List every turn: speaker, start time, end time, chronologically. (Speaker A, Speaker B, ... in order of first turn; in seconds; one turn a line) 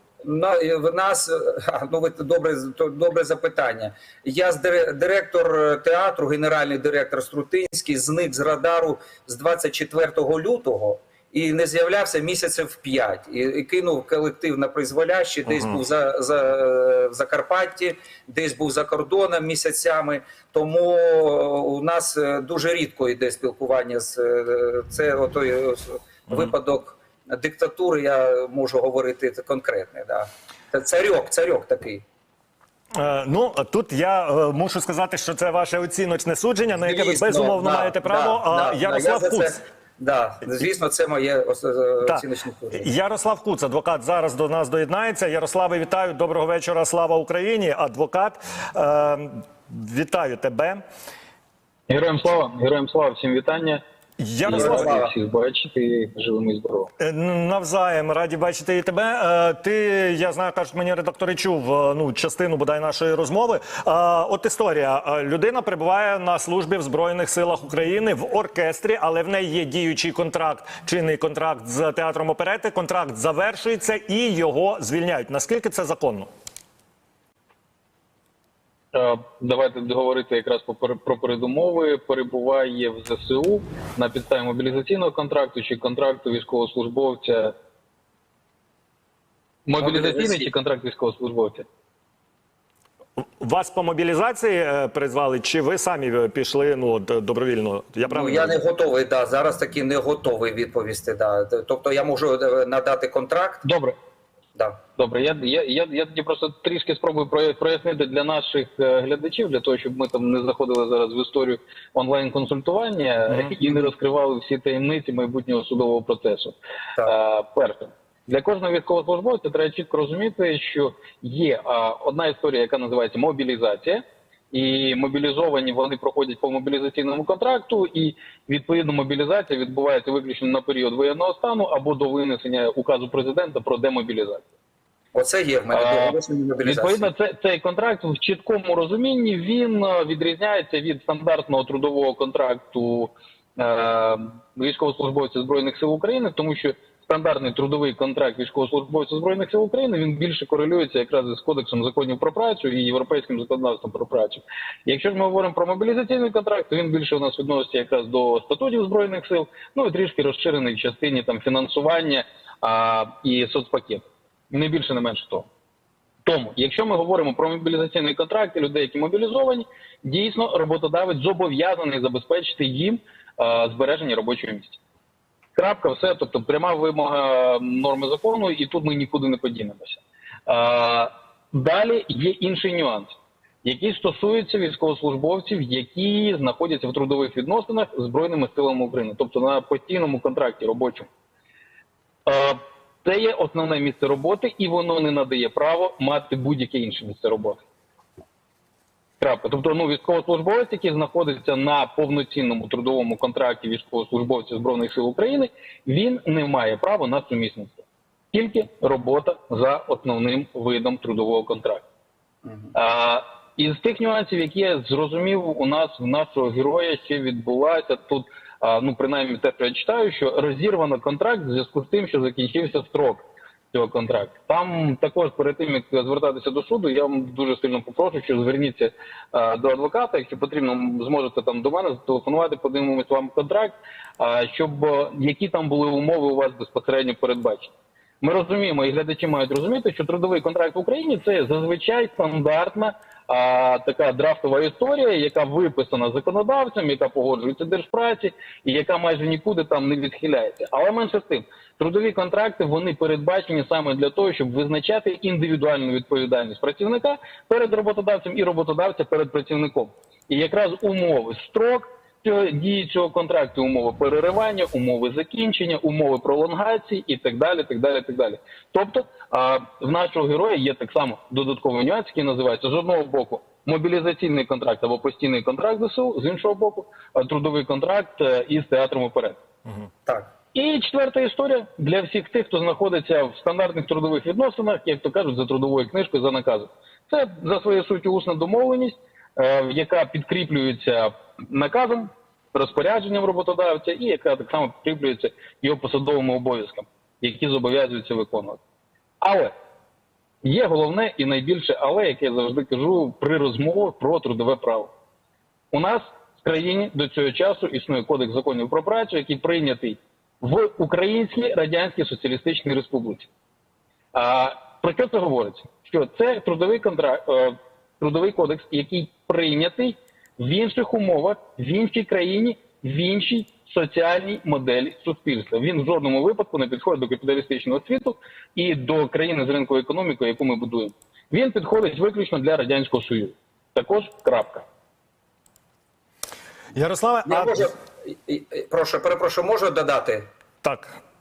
Speaker A: 0.2-32.0
Speaker B: 15.5-15.8
Speaker B: 33.0-39.6
Speaker A: 36.8-42.9
Speaker B: 42.0-50.8
Speaker C: 51.9-53.8
Speaker B: 54.2-55.0
Speaker C: 54.4-56.9
Speaker A: 54.5-55.1
Speaker B: 57.0-76.3
Speaker C: 78.9-87.5
Speaker C: 89.7-91.7
Speaker A: 89.8-90.5
Speaker B: 93.4-98.5
Speaker A: 98.1-103.6
Speaker C: 103.6-103.9
Speaker A: 104.5-104.8
Speaker C: 105.0-134.5
Speaker A: 135.1-137.1
Speaker C: 135.7-165.5
Speaker C: 166.2-174.8
Speaker C: 175.6-191.1
Speaker C: 192.2-197.6
Speaker C: 199.2-211.8
Speaker A: 212.5-212.7
Speaker C: 212.7-279.4
Speaker A: 280.1-280.3
Speaker C: 280.5-298.6
Speaker C: 299.2-299.5
Speaker C: 300.4-304.9
Speaker C: 305.7-313.3
Speaker C: 314.1-334.6
Speaker B: 336.8-337.7
Speaker A: 337.2-340.3
Speaker B: 340.6-341.0